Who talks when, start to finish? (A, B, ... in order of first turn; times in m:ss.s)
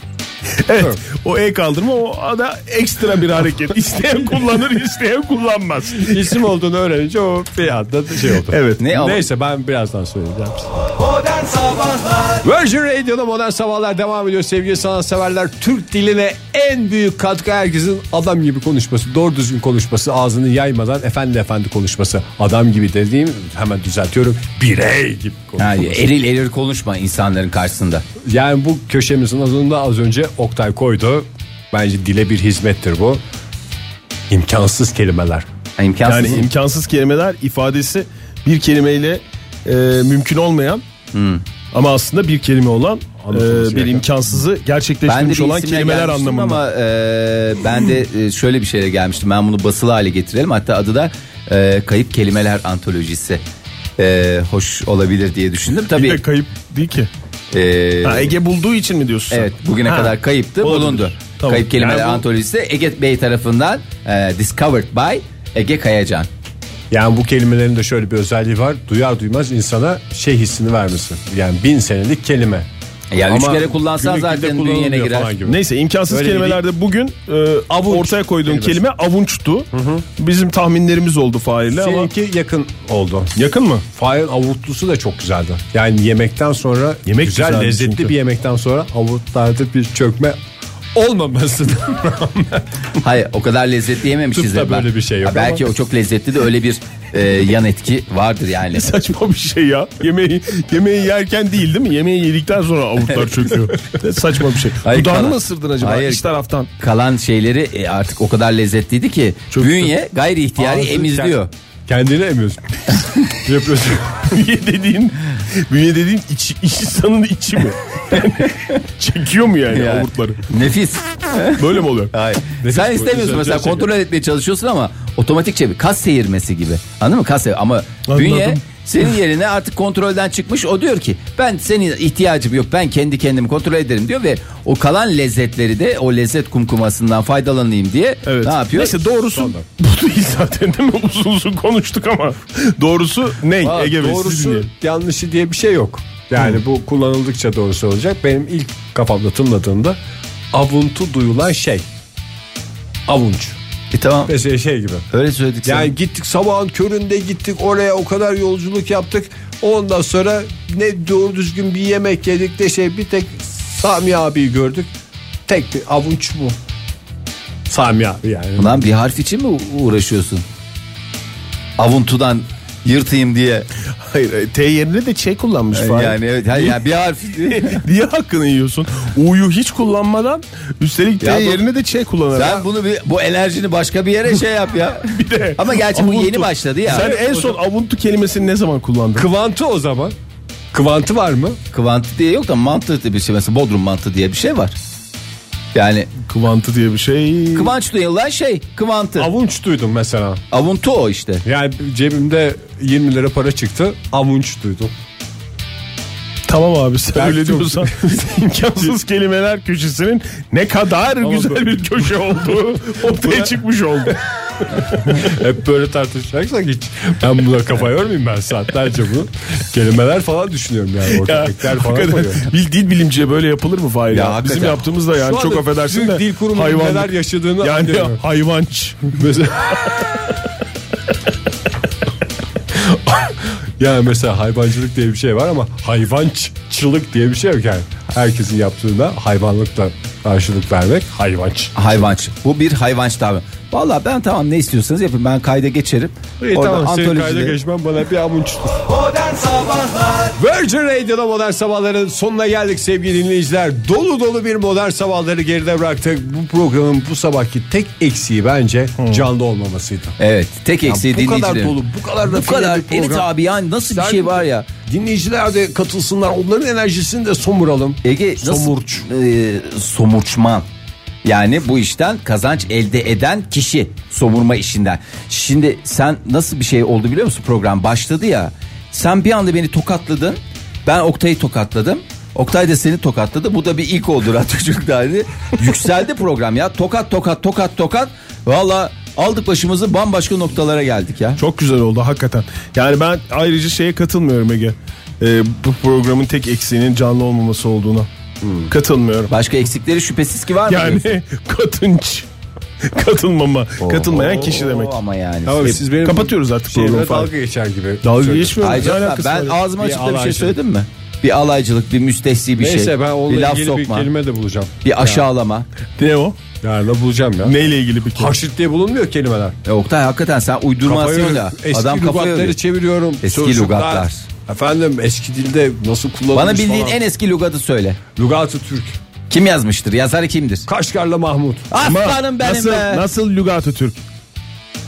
0:00.6-0:06.4 A
0:06.0-0:10.7 B
0:08.4-0:08.8 A
0:08.8-0:09.2 C
0:12.4-0:26.1 B
0:25.6-0:28.0 C
0:28.2-0:33.2 B
0:34.3-0:35.5 B
0:35.8-0:36.5 C
0:36.0-0:40.8 A
0:41.1-0:41.4 C
0:41.7-0:46.6 A
0:43.2-0:44.1 B
0:45.1-0:53.4 C
0:54.0-0:56.2 C
0:55.9-0:57.1 A
0:57.5-0:58.3 C
0:58.0-1:02.2 A
0:59.3-1:06.3 C
1:06.9-1:12.7 B
1:13.1-1:15.4 C
1:13.3-1:16.6 B
1:15.4-1:22.1 A
1:17.7-1:18.8 B
1:19.7-1:20.1 B
1:21.7-1:23.3 B
1:23.4-1:23.8 A
1:23.9-1:30.4 B
1:27.1-1:28.1 A
1:31.0-1:32.7 B
1:33.0-1:38.9 C
1:34.3-1:35.7 B
1:38.7-1:46.7 A
1:44.8-1:46.2 C
1:46.8-1:51.5 C
1:49.5-1:49.9 A
1:50.6-1:54.3 B
1:54.2-2:00.4 A
1:59.7-2:19.0 C
2:01.6-2:02.1 A
2:02.6-2:03.9 B
2:08.1-2:08.6 A
2:18.3-2:24.7 A
2:19.4-2:19.6 B
2:23.6-2:30.0 B
2:30.5-2:31.9 B
2:33.1-2:33.6 B
2:33.9-2:34.3 C
2:34.3-2:35.0 B
2:35.1-2:35.9 C
2:35.6-2:44.9 B
2:45.5-2:46.6 B
2:47.7-2:48.9 B
2:48.6-2:50.4 C
2:51.8-2:53.7 C
2:54.0-2:56.8 A
2:55.7-2:57.8 C
2:57.5-3:02.6 A
3:01.2-3:01.6 C
3:02.3-3:07.1 C
3:05.1-3:09.3 A
3:06.9-3:07.6 B
3:09.2-3:10.2 B
3:10.7-3:11.6 B
3:11.7-3:14.8 C
3:15.7-3:16.1 C
3:16.3-3:17.8 A
3:17.5-3:19.3 C
3:19.2-3:20.4 B
3:20.5-3:21.4 C
3:21.4-3:24.9 B
3:26.5-3:34.2 A
3:27.2-3:28.9 B
3:31.2-3:31.9 B
3:33.2-3:33.6 B
3:34.7-3:42.5 B
3:41.1-3:49.2 A
3:44.1-3:44.8 C
3:45.2-3:48.2 B
3:49.1-3:49.9 B
3:52.7-4:02.1 B
4:01.8-4:07.6 C
4:06.4-4:09.1 B
4:10.4-4:20.2 B
4:19.0-4:19.3 A
4:20.2-4:24.7 C
4:20.8-4:23.3 B
4:23.9-4:29.1 B
4:28.0-4:30.7 C
4:31.2-4:51.4 C
4:51.4-4:58.1 A
4:58.4-4:58.7 B
4:58.7-4:59.3 A
4:59.3-5:01.2 C
5:00.7-5:02.3 A
5:02.8-5:05.0 A
5:03.8-5:05.8 C
5:05.5-5:08.9 B
5:05.7-5:07.3 A
5:08.0-5:09.6 A
5:08.6-5:14.1 C
5:09.8-5:10.6 B
5:12.6-5:15.3 B
5:14.8-5:15.7 C
5:16.0-5:16.4 A
5:16.6-5:17.6 B
5:17.4-5:18.4 A
5:18.2-5:19.6 B
5:19.6-5:22.6 C
5:20.8-5:27.0 B
5:23.2-5:24.2 C
5:26.3-5:28.0 C
5:28.2-5:29.0 B
5:29.3-5:30.7 C
5:30.7-5:31.7 B
5:31.7-5:33.0 C
5:31.8-5:34.0 A